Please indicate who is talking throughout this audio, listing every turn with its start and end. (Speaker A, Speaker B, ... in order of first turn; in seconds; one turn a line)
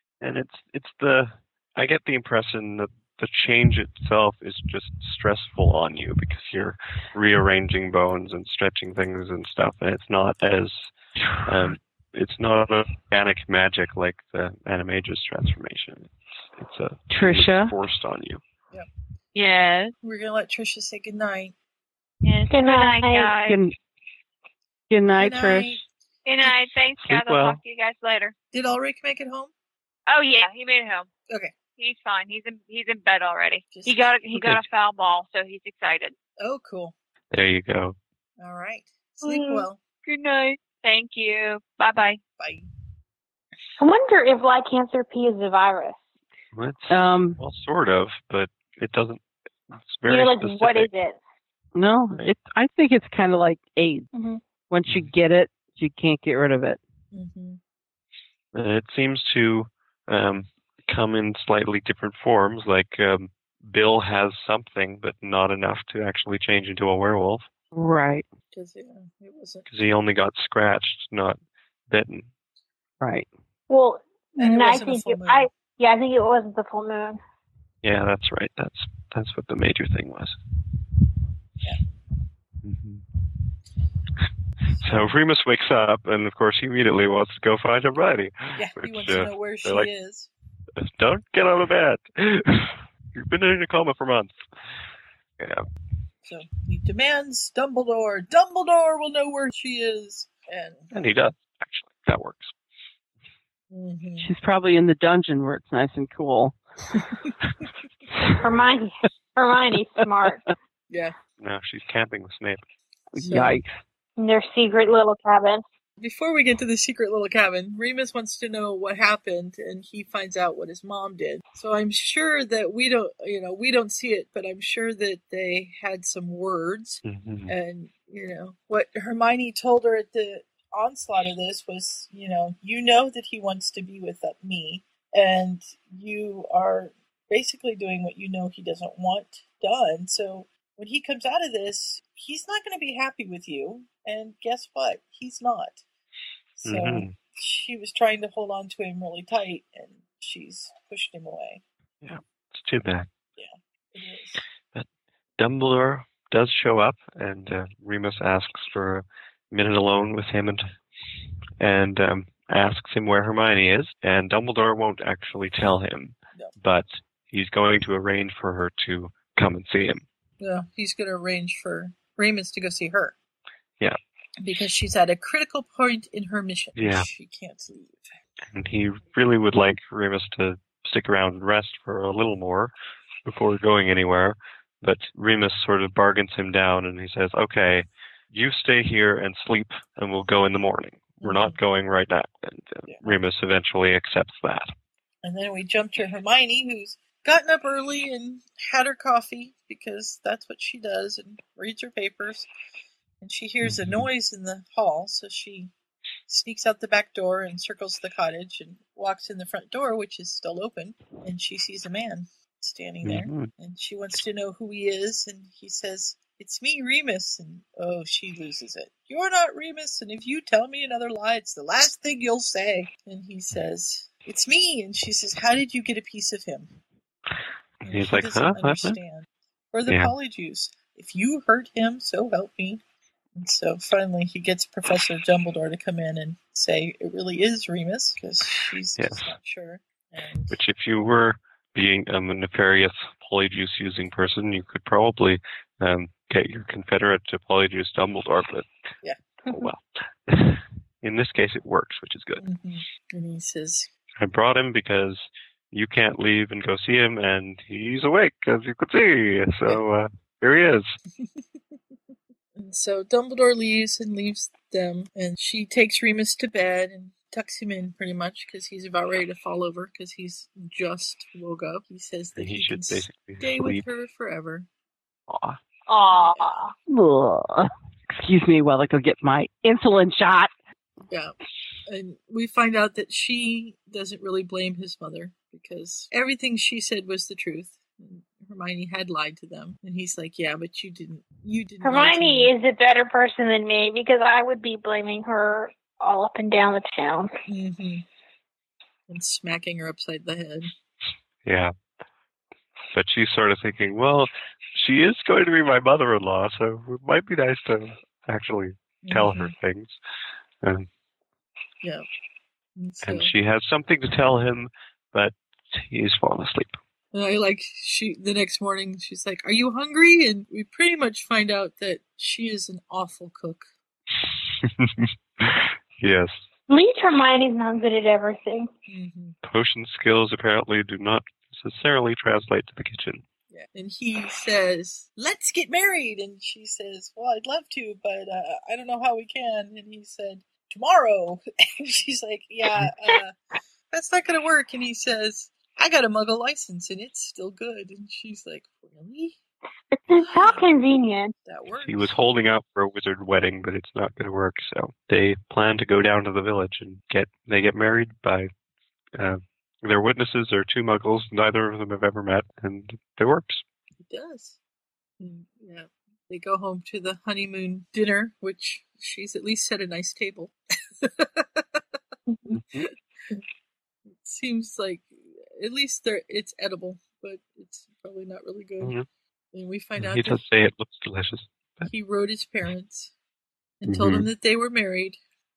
Speaker A: 0.2-10.9
Speaker B: 11.2-11.7
Speaker A: 11.5-18.4
Speaker B: 17.1-17.8
Speaker C: 19.4-19.9
Speaker D: 20.0-21.5
Speaker C: 22.3-23.6
Speaker E: 22.5-23.4
Speaker B: 23.4-23.8
Speaker B: 24.9-25.8
Speaker D: 25.1-25.8
Speaker C: 26.3-28.3
Speaker A: 27.0-27.6
Speaker D: 28.5-29.5
Speaker C: 30.1-31.1
Speaker D: 31.3-31.6
Speaker C: 31.8-36.1
Speaker D: 33.7-34.2
Speaker A: 34.4-34.6
Speaker D: 36.4-36.9
Speaker A: 37.3-38.0
Speaker D: 38.4-39.8
Speaker C: 40.1-42.2
Speaker D: 42.4-42.7
Speaker E: 43.8-46.0
Speaker A: 46.5-50.9
Speaker B: 46.9-47.4
Speaker E: 50.1-51.2
Speaker B: 51.8-54.1
Speaker E: 54.1-54.4
Speaker B: 54.7-56.8
Speaker D: 57.1-57.6
Speaker A: 58.5-67.5
Speaker B: 67.7-68.3
Speaker D: 68.5-69.7
Speaker A: 69.7-72.3
Speaker B: 73.0-73.3
Speaker E: 73.7-77.2
Speaker D: 74.4-75.5
Speaker A: 77.8-80.4
Speaker A: 82.6-83.0
Speaker D: 84.8-85.1
Speaker A: 84.8-89.9
Speaker D: 88.6-90.3
Speaker A: 90.8-94.3
Speaker A: 95.4-95.7
Speaker D: 96.2-100.9
Speaker A: 100.9-102.5
Speaker D: 103.7-104.3
Speaker B: 104.2-106.6
Speaker E: 108.4-110.4
Speaker D: 110.9-111.2
Speaker A: 111.4-112.6
Speaker B: 113.1-113.7
Speaker D: 113.2-113.6
Speaker E: 114.2-115.6
Speaker D: 116.0-145.8
Speaker A: 127.0-127.5
Speaker D: 146.6-151.6
Speaker A: 146.6-147.1
Speaker A: 152.0-153.1
Speaker D: 153.4-154.4
Speaker A: 155.4-160.7
Speaker A: 161.6-170.0
Speaker D: 170.4-173.1
Speaker D: 174.4-178.1
Speaker A: 176.8-177.1
Speaker A: 178.5-182.7
Speaker A: 183.3-194.7
Speaker D: 191.2-191.6
Speaker D: 195.2-202.5
Speaker D: 203.2-205.7
Speaker A: 203.6-204.1
Speaker D: 206.3-226.7
Speaker A: 213.0-213.5
Speaker D: 227.8-232.8
Speaker A: 227.9-229.0
Speaker A: 229.9-230.1
Speaker D: 233.4-240.6
Speaker A: 239.0-239.3
Speaker A: 240.5-248.7
Speaker D: 249.0-249.7
Speaker A: 249.5-252.4
Speaker D: 252.4-253.9
Speaker A: 254.2-260.9
Speaker D: 262.6-274.7
Speaker A: 272.4-273.9
Speaker A: 275.3-275.6
Speaker E: 275.9-276.7
Speaker D: 276.1-276.6
Speaker B: 276.9-280.5
Speaker D: 281.1-281.4
Speaker D: 281.9-292.5
Speaker E: 291.8-297.3
Speaker D: 297.5-298.1
Speaker D: 299.1-300.7
Speaker A: 301.4-301.7
Speaker A: 302.9-310.0
Speaker D: 309.0-309.5
Speaker D: 312.8-313.3
Speaker A: 313.0-316.8
Speaker D: 317.1-323.7
Speaker A: 324.6-326.4
Speaker E: 326.7-328.7
Speaker D: 328.9-329.4
Speaker A: 329.4-333.2
Speaker D: 333.5-343.4
Speaker D: 343.9-349.4
Speaker E: 350.1-351.3
Speaker D: 350.1-350.6
Speaker D: 351.4-352.1
Speaker A: 351.7-358.5
Speaker A: 359.2-363.6
Speaker D: 364.1-364.6
Speaker D: 365.2-371.8
Speaker D: 372.7-373.4
Speaker D: 374.2-379.0
Speaker A: 378.8-379.1
Speaker D: 379.5-380.4
Speaker A: 380.0-381.9
Speaker D: 381.9-383.1
Speaker D: 383.8-385.2
Speaker A: 383.9-384.3